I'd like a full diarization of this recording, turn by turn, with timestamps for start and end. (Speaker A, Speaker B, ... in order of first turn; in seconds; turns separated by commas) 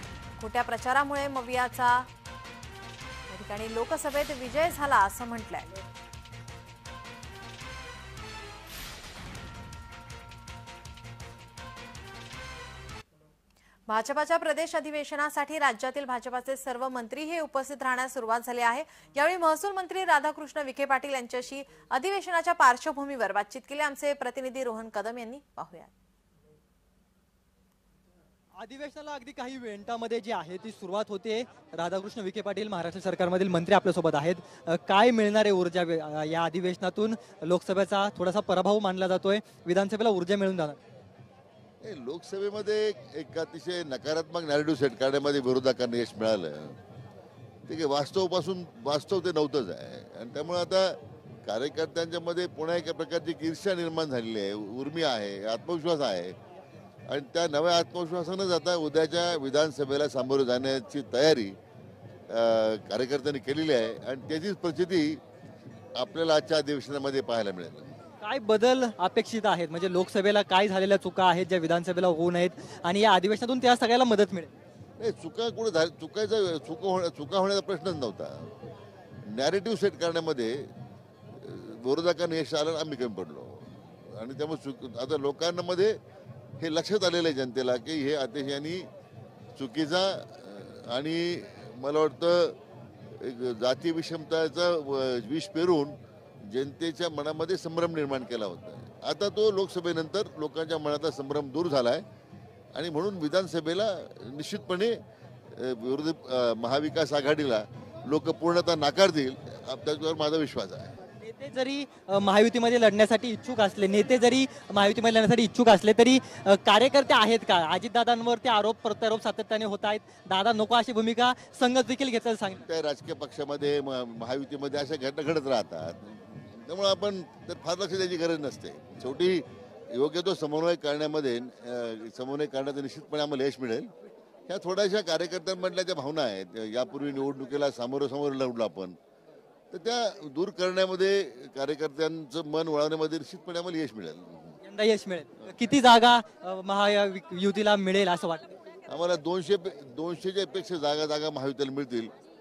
Speaker A: 0.4-2.1, Speaker A: 3.3-5.7, Speaker A: 13.9-25.9, Speaker B: 28.6-40.8, Speaker C: 41.8-46.8, Speaker C: 47.7-56.4, Speaker C: 57.1-61.6, Speaker C: 62.3-65.2, Speaker C: 66.0-68.0, Speaker B: 68.2-74.5, Speaker C: 75.0-78.6, Speaker C: 79.2-80.7, Speaker C: 81.3-86.0, Speaker C: 86.6-88.9, Speaker C: 89.5-92.6, Speaker C: 93.1-102.0, Speaker C: 102.7-105.0, Speaker C: 105.5-111.0, Speaker B: 111.2-122.6, Speaker C: 122.6-133.9, Speaker C: 134.5-139.0, Speaker C: 139.7-144.6, Speaker B: 144.6-148.5, Speaker C: 148.9-152.1